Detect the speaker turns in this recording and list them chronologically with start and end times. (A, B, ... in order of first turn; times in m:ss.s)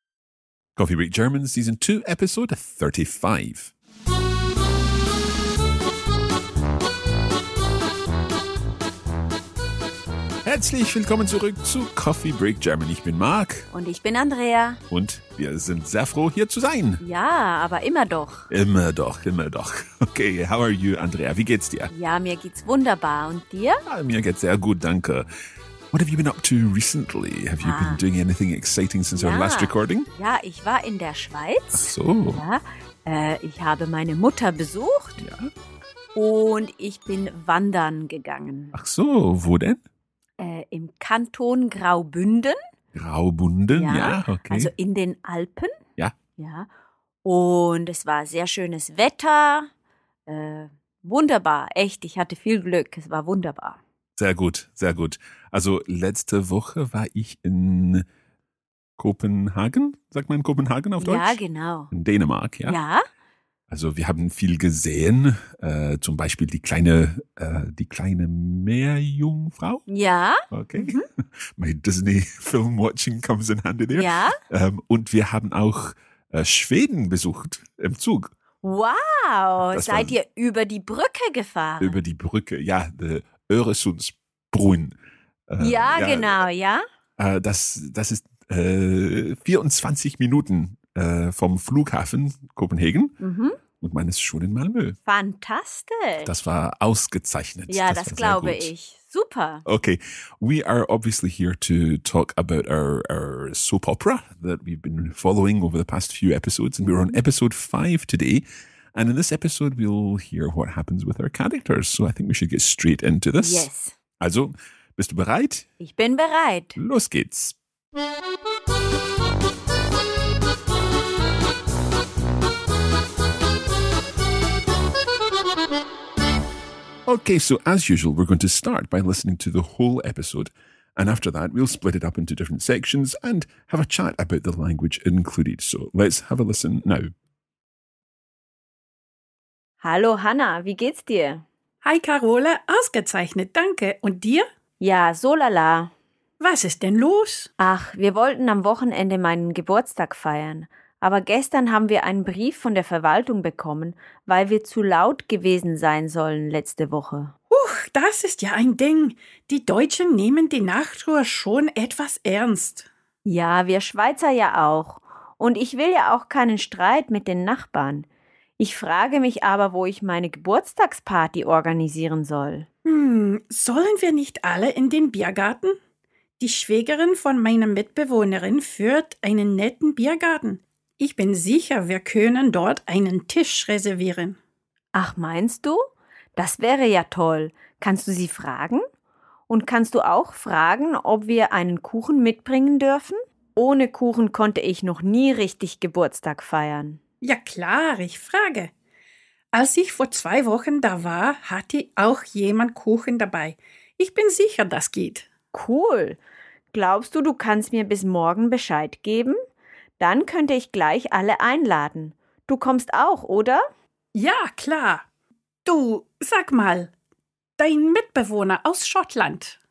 0:00.8-0:03.7 A
0:10.4-0:13.7 A
0:13.7-0:14.8 B
0:14.9-0:17.0 A
0:17.0-0:18.5 B
0:18.5-0:21.9 A
0:21.9-0:23.8 B
0:23.8-0:25.3 A
0:25.9-0:30.1 A
0:27.6-0:28.0 B
0:29.1-0:35.2 B
0:31.7-0:32.4 A
0:35.2-0:35.5 A
0:36.1-0:38.7 B
0:38.7-0:39.8 A
0:40.4-0:42.6 B
0:42.9-0:44.7 A
0:43.7-0:45.7 B
0:46.4-0:46.7 B
0:47.2-0:49.7 B
0:50.3-0:53.8 B
0:54.2-0:58.0 A
0:59.0-1:01.4 A
1:01.0-1:01.9 B
1:01.9-1:02.8 A
1:02.6-1:03.0 B
1:03.7-1:09.8 A
1:09.9-1:11.0 B
1:10.5-1:18.3 A
1:13.9-1:14.4 B
1:18.6-1:22.0 B
1:19.7-1:20.1 A
1:21.8-1:24.9 A
1:25.5-1:26.4 A
1:25.6-1:26.8 B
1:27.2-1:33.2 A
1:33.2-1:33.6 B
1:33.8-1:35.0 A
1:35.1-1:36.3 B
1:36.2-1:38.7 A
1:37.7-1:39.6 B
1:39.6-1:53.7 A
1:53.4-1:53.9 B
1:54.2-1:55.7 A
1:55.8-1:56.8 B
1:56.8-1:57.5 A
2:07.0-2:17.1 A
2:19.8-2:21.4 B
2:21.8-2:24.5 C
2:24.8-2:25.9 B
2:26.4-2:27.5 C
2:27.6-2:37.3 B
2:37.5-2:42.9 C
2:43.2-2:48.0 B
2:48.6-2:52.7 B
2:52.8-2:55.8 C
2:56.4-3:04.4 C
3:04.9-3:05.8 B
3:06.4-3:08.8 B
3:09.5-3:17.0 B
3:17.2-3:18.7 C
3:19.5-3:25.3 C
3:25.5-3:26.2 B
3:26.7-3:29.4 B
3:30.0-3:33.6 B
3:34.1-3:35.0 C
3:35.6-3:36.9 C
3:37.6-3:39.6 C